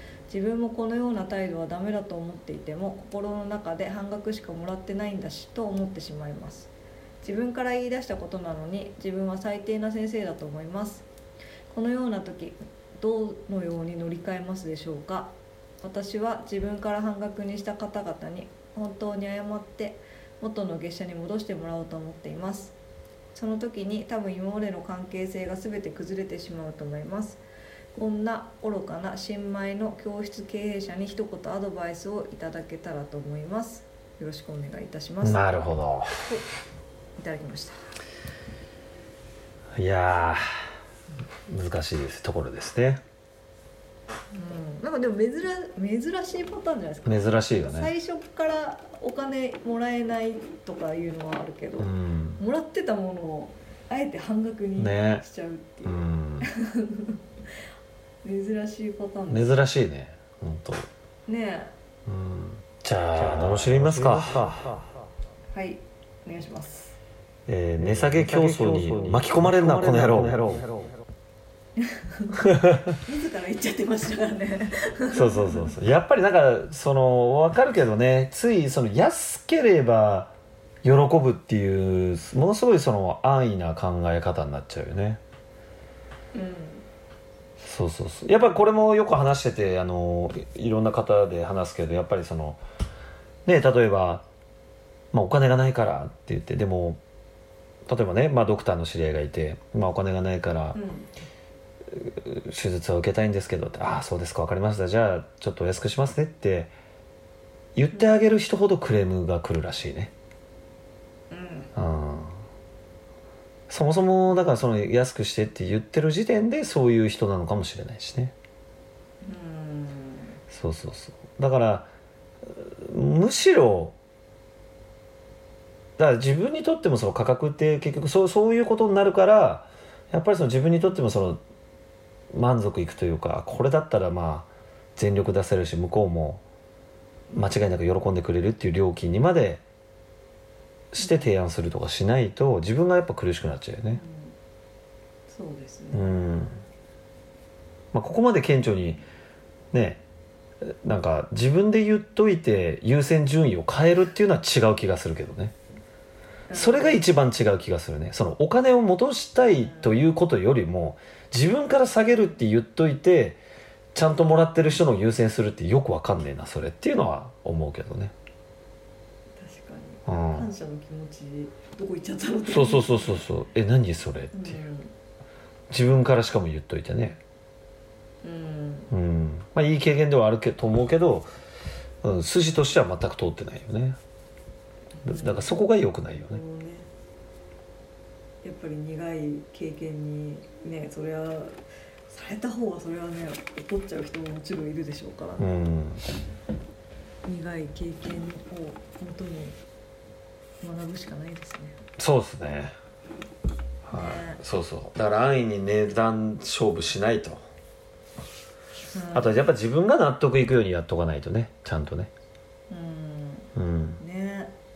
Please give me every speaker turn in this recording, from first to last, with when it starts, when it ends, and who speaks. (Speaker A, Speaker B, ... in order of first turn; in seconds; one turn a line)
Speaker A: 0.3-6.7
Speaker A: 7.2-11.1
Speaker A: 11.7-22.8
Speaker A: 23.3-27.4
Speaker A: 27.9-35.5
Speaker B: 35.2-36.1
Speaker A: 37.2-37.8
Speaker B: 39.8-40.4
Speaker B: 41.5-43.0
Speaker A: 44.3-57.2
Speaker B: 47.0-47.9
Speaker B: 51.8-52.4
Speaker B: 54.8-55.2
Speaker B: 55.8-56.5
Speaker A: 58.2-59.7
Speaker B: 59.3-60.9
Speaker A: 61.3-61.7
Speaker B: 62.1-64.8
Speaker A: 65.5-67.0
Speaker B: 67.5-70.7
Speaker A: 71.8-75.7
Speaker B: 72.4-72.8
Speaker B: 75.1-85.2
Speaker A: 86.3-86.9
Speaker B: 87.6-92.6
Speaker B: 93.5-94.2
Speaker B: 95.1-97.0
Speaker B: 97.9-100.8
Speaker A: 100.7-101.1
Speaker B: 101.9-106.7
Speaker B: 107.8-110.1
Speaker A: 111.3-111.7
Speaker B: 111.7-112.3
Speaker B: 113.7-118.3
Speaker A: 119.2-120.4
Speaker B: 120.5-121.9
Speaker B: 122.5-124.0
Speaker B: 126.0-131.4
Speaker B: 132.3-136.4
Speaker B: 137.3-139.6
Speaker B: 140.9-144.0
Speaker A: 143.9-144.4
Speaker A: 145.3-146.5
Speaker B: 145.9-146.6
Speaker B: 147.9-149.0
Speaker B: 149.7-150.0
Speaker B: 150.6-155.6
Speaker A: 156.5-157.1
Speaker B: 156.5-163.4
Speaker A: 159.6-160.0
Speaker B: 163.9-168.1
Speaker A: 169.4-173.2
Speaker B: 170.1-170.5
Speaker B: 172.5-174.6
Speaker A: 174.3-174.9
Speaker B: 175.7-177.2
Speaker A: 178.2-178.9
Speaker B: 178.9-181.3
Speaker B: 182.0-184.0
Speaker A: 185.0-186.9
Speaker B: 185.1-186.4
Speaker A: 188.4-195.7
Speaker B: 195.4-196.0
Speaker A: 197.2-199.6
Speaker A: 200.6-201.8
Speaker B: 202.0-202.7
Speaker B: 203.9-207.4
Speaker A: 203.9-204.4
Speaker A: 208.9-209.4
Speaker B: 209.1-212.1
Speaker A: 212.7-214.5
Speaker B: 213.6-214.0